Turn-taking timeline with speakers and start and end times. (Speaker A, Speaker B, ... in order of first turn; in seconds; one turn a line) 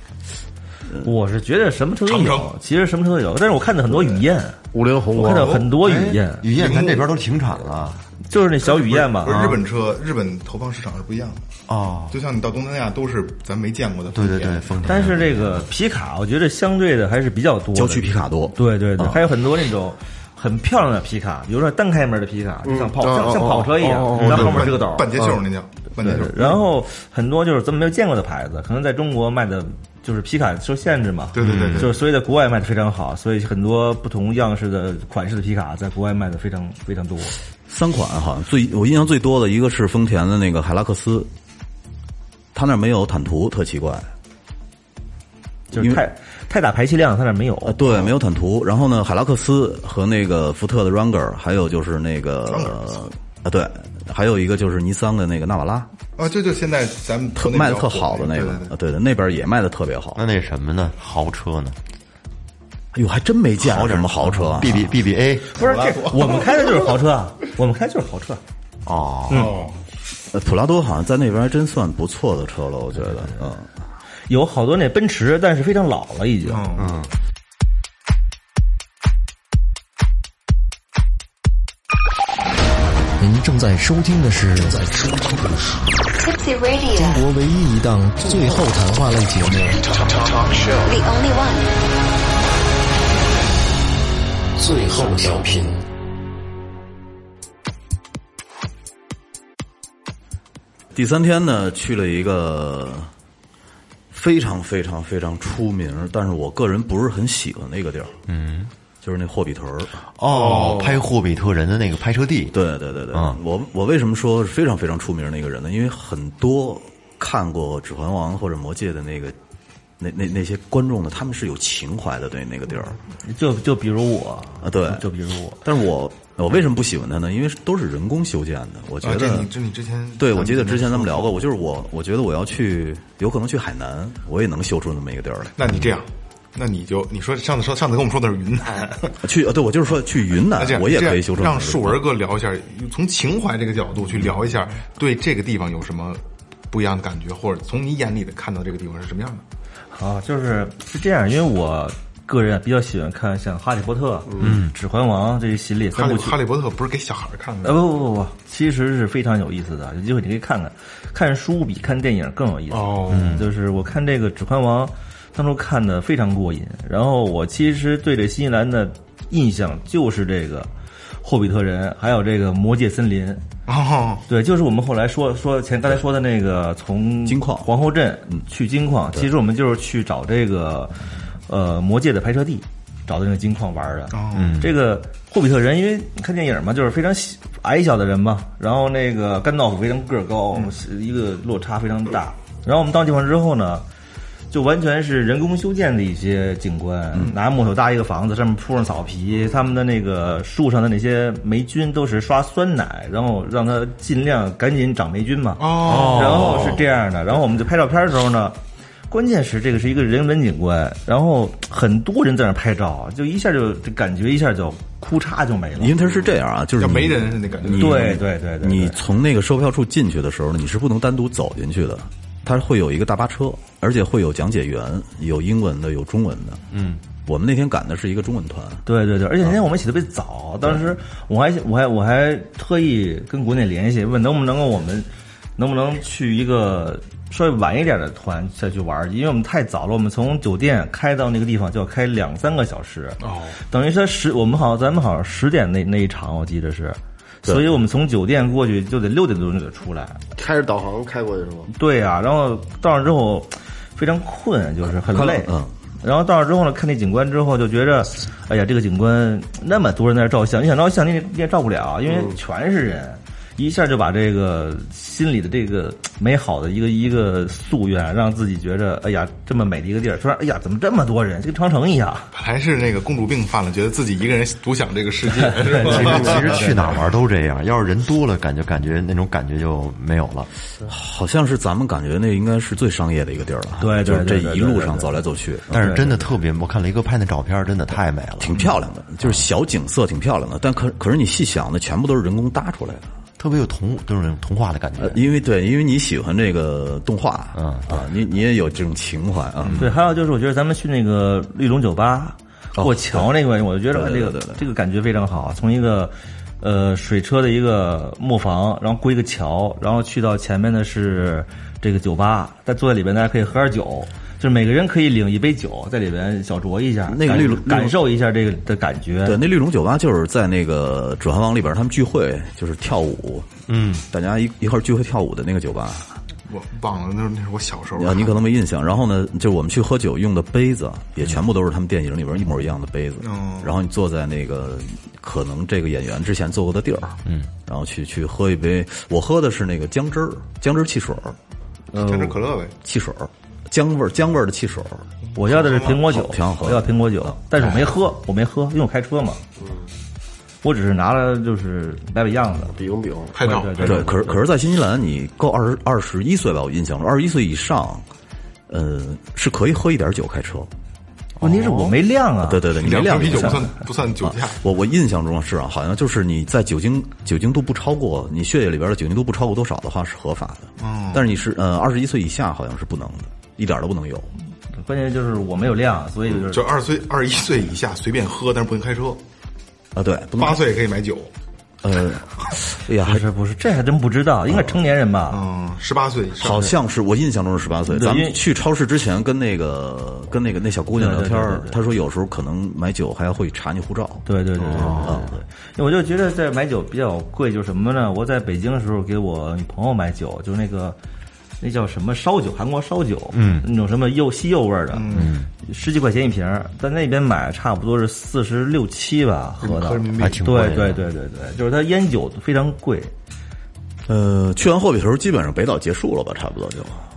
Speaker A: 1.0-4.6
Speaker B: 2.0-2.5
Speaker C: 4.7-5.7
Speaker A: 5.2-6.5
Speaker D: 5.8-8.0
Speaker B: 6.6-7.1
Speaker A: 8.3-9.6
Speaker B: 8.6-11.4
Speaker D: 9.3-9.6
Speaker D: 11.7-12.2
Speaker B: 12.1-14.9
Speaker D: 14.1-15.7
Speaker A: 14.8-25.4
Speaker E: 17.8-19.2
Speaker C: 22.6-24.7
Speaker D: 24.1-24.4
Speaker B: 24.1-26.6
Speaker A: 26.0-37.4
Speaker B: 31.3-32.0
Speaker D: 31.4-31.9
Speaker E: 37.7-41.3
Speaker E: 42.5-44.1
Speaker A: 45.7-47.8
Speaker E: 45.8-46.0
Speaker E: 47.6-55.9
Speaker B: 52.5-53.0
Speaker B: 56.2-58.7
Speaker E: 57.4-60.2
Speaker D: 60.2-61.8
Speaker E: 63.0-64.9
Speaker D: 63.6-65.5
Speaker B: 65.5-66.9
Speaker A: 65.5-68.4
Speaker D: 68.8-69.6
Speaker A: 69.3-69.5
Speaker B: 69.3-69.8
Speaker E: 70.3-73.7
Speaker A: 73.0-73.5
Speaker A: 74.3-76.7
Speaker B: 76.5-77.0
Speaker D: 76.8-77.1
Speaker F: 83.2-85.9
Speaker G: 86.2-87.2
Speaker F: 87.0-89.8
Speaker G: 90.7-91.7
Speaker F: 94.6-95.8
Speaker E: 100.9-103.1
Speaker E: 104.1-108.2
Speaker D: 108.3-108.7
Speaker E: 109.0-110.0
Speaker D: 110.2-112.6
Speaker B: 110.3-111.0
Speaker E: 112.5-119.3
Speaker D: 113.1-113.4
Speaker E: 120.0-123.0
Speaker A: 123.2-125.6
Speaker E: 124.6-125.0
Speaker E: 125.6-129.5
Speaker B: 129.0-131.4
Speaker E: 130.2-135.6
Speaker B: 135.6-139.2
Speaker E: 139.2-142.0
Speaker B: 140.5-149.4
Speaker A: 149.9-156.4
Speaker D: 154.4-154.7
Speaker B: 155.9-158.0
Speaker A: 157.6-170.7
Speaker B: 162.7-163.5
Speaker D: 163.1-163.5
Speaker A: 171.2-173.4
Speaker B: 173.7-174.2
Speaker A: 174.3-180.9
Speaker E: 177.3-177.7
Speaker A: 181.5-193.8
Speaker B: 184.1-184.6
Speaker D: 184.3-184.8
Speaker A: 194.5-208.6
Speaker B: 205.6-206.8
Speaker D: 205.9-206.8
Speaker A: 209.1-216.0
Speaker E: 215.8-226.6
Speaker B: 216.8-218.1
Speaker A: 217.7-219.0
Speaker D: 226.7-227.0
Speaker E: 227.2-228.8
Speaker A: 228.9-250.2
Speaker B: 243.2-243.6
Speaker E: 247.4-247.7
Speaker C: 250.4-251.7
Speaker A: 251.7-272.3
Speaker E: 254.9-255.7
Speaker B: 272.3-277.1
Speaker A: 275.4-277.0
Speaker D: 275.9-280.5
Speaker E: 280.9-286.0
Speaker A: 283.8-285.2
Speaker D: 285.7-288.7
Speaker A: 285.8-286.2
Speaker E: 288.4-293.1
Speaker D: 293.4-295.2
Speaker E: 295.0-300.0
Speaker D: 297.6-297.9
Speaker D: 299.6-300.0
Speaker A: 299.8-319.4
Speaker E: 302.8-303.4
Speaker E: 303.9-304.6
Speaker E: 317.1-318.0
Speaker E: 319.2-323.5
Speaker D: 323.7-324.1
Speaker E: 324.1-326.2
Speaker B: 326.5-328.4
Speaker E: 328.0-341.4
Speaker B: 333.2-333.8
Speaker D: 337.2-337.5
Speaker A: 341.9-342.5
Speaker B: 341.9-342.8
Speaker E: 342.8-345.1
Speaker A: 345.4-349.4
Speaker B: 345.4-346.0
Speaker E: 345.8-347.8
Speaker C: 349.6-349.9
Speaker A: 350.6-352.8
Speaker C: 352.7-353.4
Speaker B: 353.3-354.1
Speaker A: 353.4-354.4
Speaker E: 353.8-358.1
Speaker E: 358.7-360.7
Speaker D: 361.4-362.0
Speaker A: 361.4-363.5
Speaker E: 362.4-374.3
Speaker B: 362.8-364.6
Speaker B: 370.8-371.2
Speaker A: 374.8-376.6
Speaker B: 376.3-379.2
Speaker E: 379.9-380.7
Speaker B: 380.4-381.3
Speaker E: 381.8-383.2
Speaker A: 383.0-385.4
Speaker E: 384.5-384.8
Speaker B: 385.3-386.8
Speaker E: 386.4-395.3
Speaker A: 387.9-388.4
Speaker A: 391.0-391.8
Speaker A: 394.3-401.0
Speaker B: 394.7-395.1
Speaker D: 394.7-395.3
Speaker A: 401.6-413.1
Speaker D: 403.3-403.7
Speaker B: 404.9-405.3
Speaker D: 405.1-405.5
Speaker B: 409.6-410.5
Speaker D: 410.2-411.1
Speaker E: 414.1-417.1